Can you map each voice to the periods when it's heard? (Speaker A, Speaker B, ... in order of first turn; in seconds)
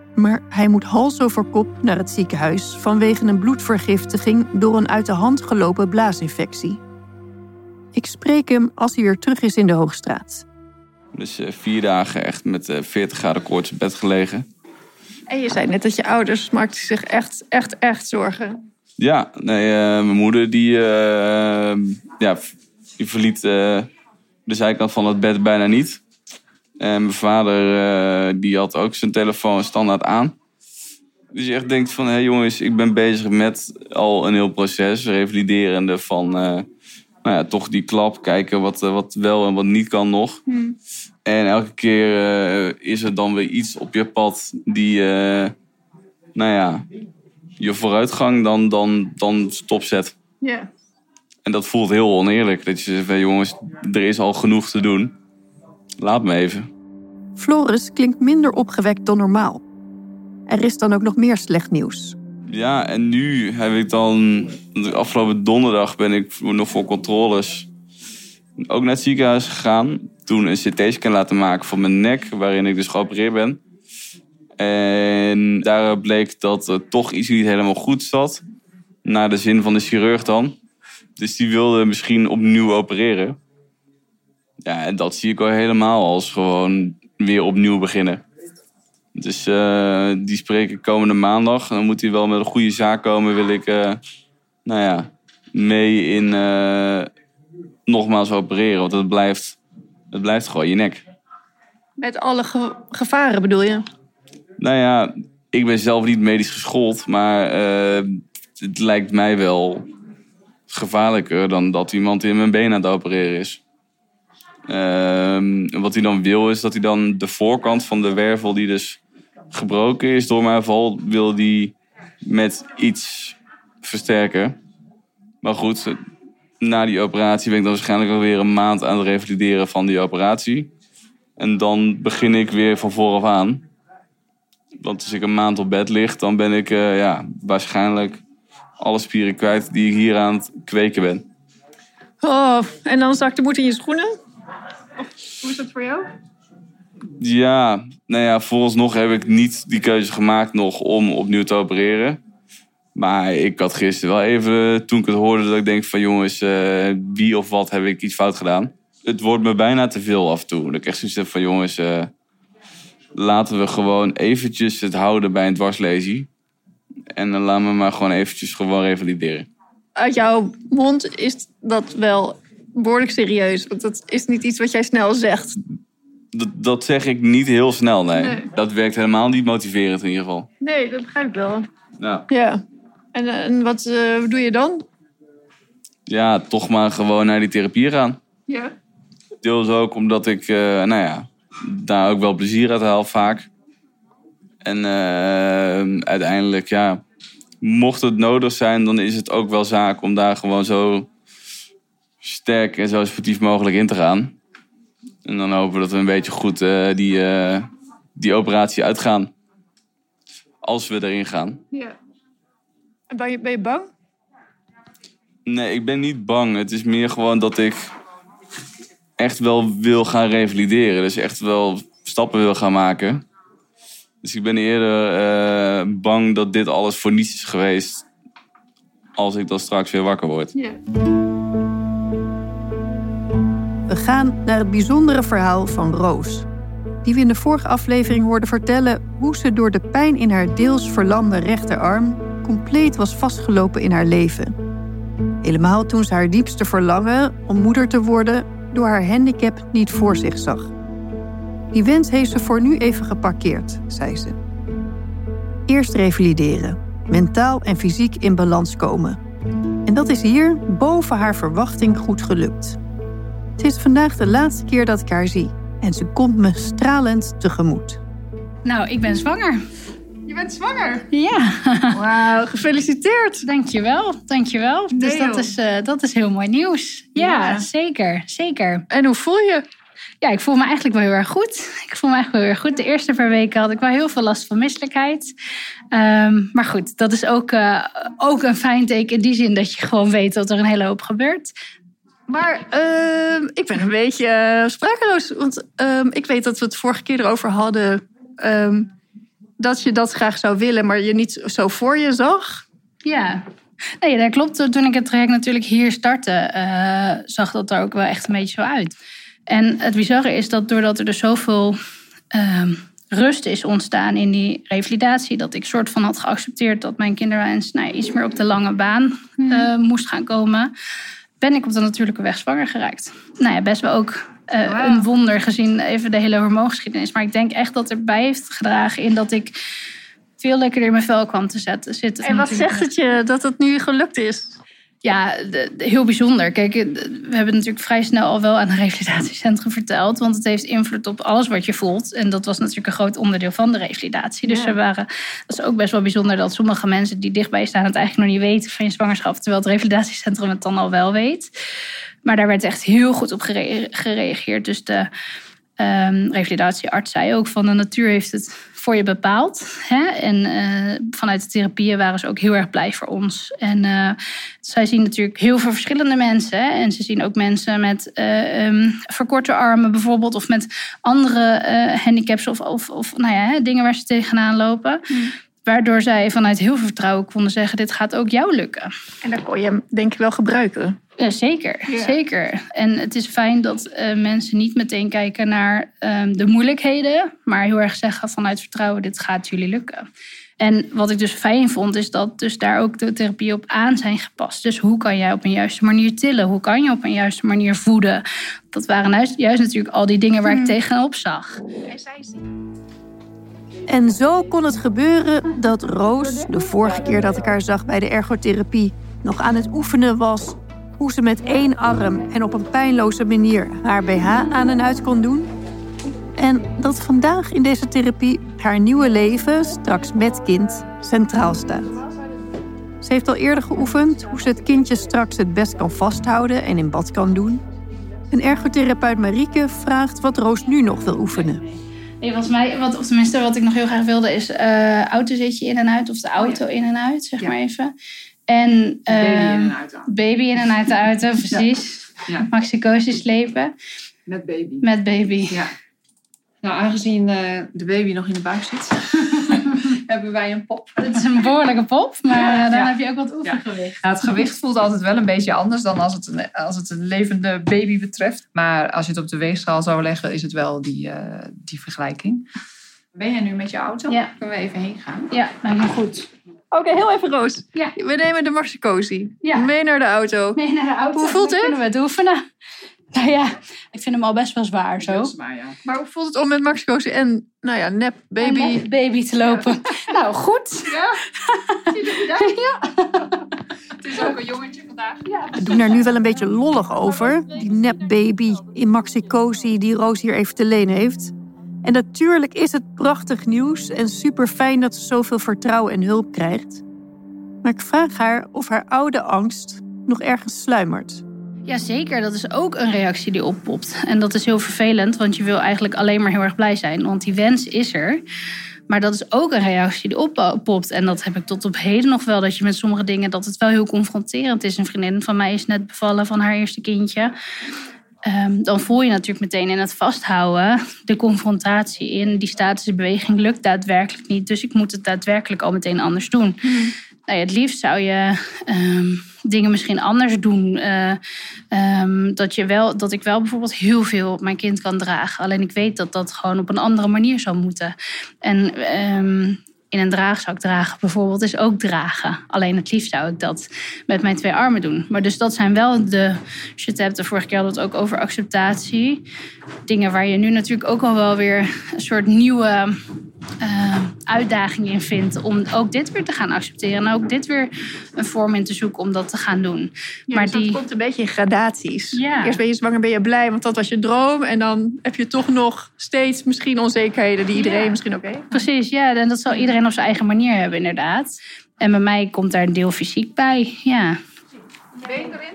Speaker A: 0.1-6.8, 7.9-10.4, 57.4-59.6, 60.5-62.2, 233.9-236.5, 237.0-244.6, 245.4-250.7, 251.7-254.4, 255.7-259.2, 259.9-262.8, 263.6-268.0, 403.9-415.5, 416.4-421.9, 423.0-427.6, 428.3-431.6, 485.6-496.8, 497.6-501.2
Speaker B: 11.1-14.5, 19.0-23.9, 24.5-26.0, 26.8-30.3, 31.3-36.7, 37.2-40.4, 41.3-45.5, 46.4-46.9, 47.6-50.1, 51.5-55.1, 56.0-56.7, 62.5-67.7, 68.6-73.6, 74.6-78.4, 79.0-80.6, 81.2-83.4, 84.6-88.2, 89.2-94.0, 94.7-97.1, 97.9-99.6, 100.1-101.0, 104.6-109.9, 110.7-113.6, 114.7-119.0, 119.5-124.6, 125.4-126.0, 126.6-130.7, 131.4-133.7, 134.8-138.2, 138.8-141.3, 147.2-152.2, 152.9-162.1, 163.2-166.3, 167.1-169.5, 176.3-180.5, 182.0-182.3, 186.1-188.2, 189.4-193.5, 194.6-197.0, 197.6-201.1, 202.2-204.4, 205.2-209.3, 210.6-211.6, 215.5-217.9, 219.2-223.2, 224.2-228.0, 229.2-230.5
Speaker C: 15.3-18.6, 40.5-40.8, 50.4-50.7, 102.0-103.9, 142.2-144.2, 145.4-146.1, 170.0-175.6, 178.1-178.5, 180.6-181.7, 182.3-182.6, 183.1-184.8, 188.5-188.7, 213.1-213.9, 270.3-271.1, 271.9-273.4, 274.9-275.5, 277.2-277.7, 278.9-279.7, 292.3-298.9, 299.6-302.6, 332.2-334.6, 344.5-344.8, 379.2-381.0, 400.5-400.7, 401.9-402.4, 466.7-470.6, 471.1-471.8, 475.8-478.9, 560.3-568.5
Speaker D: 268.6-269.6, 271.1-272.1, 273.4-278.9, 280.2-285.3, 285.9-291.5, 303.1-303.4, 304.0-308.9, 309.5-311.8, 312.3-320.7, 321.4-329.5, 330.4-332.9, 335.0-351.5, 352.2-355.1, 355.8-375.1, 375.6-378.9, 381.2-390.1, 390.6-401.6, 432.2-437.9, 438.5-443.7, 444.8-445.7, 451.0-454.0, 465.3-466.3, 469.4-469.7, 470.5-472.4, 473.1-475.3, 478.4-483.4, 501.7-508.2, 508.9-517.3, 518.2-526.7, 527.3-531.2, 531.7-549.2, 549.9-553.0, 553.6-560.8, 562.1-562.6, 568.5-574.2
Speaker E: 439.1-440.1, 444.3-444.9, 446.6-451.4, 452.3-452.9, 453.4-462.4, 463.1-465.3, 475.0-475.8, 480.9-481.2, 481.9-482.5, 484.0-485.2, 575.1-575.4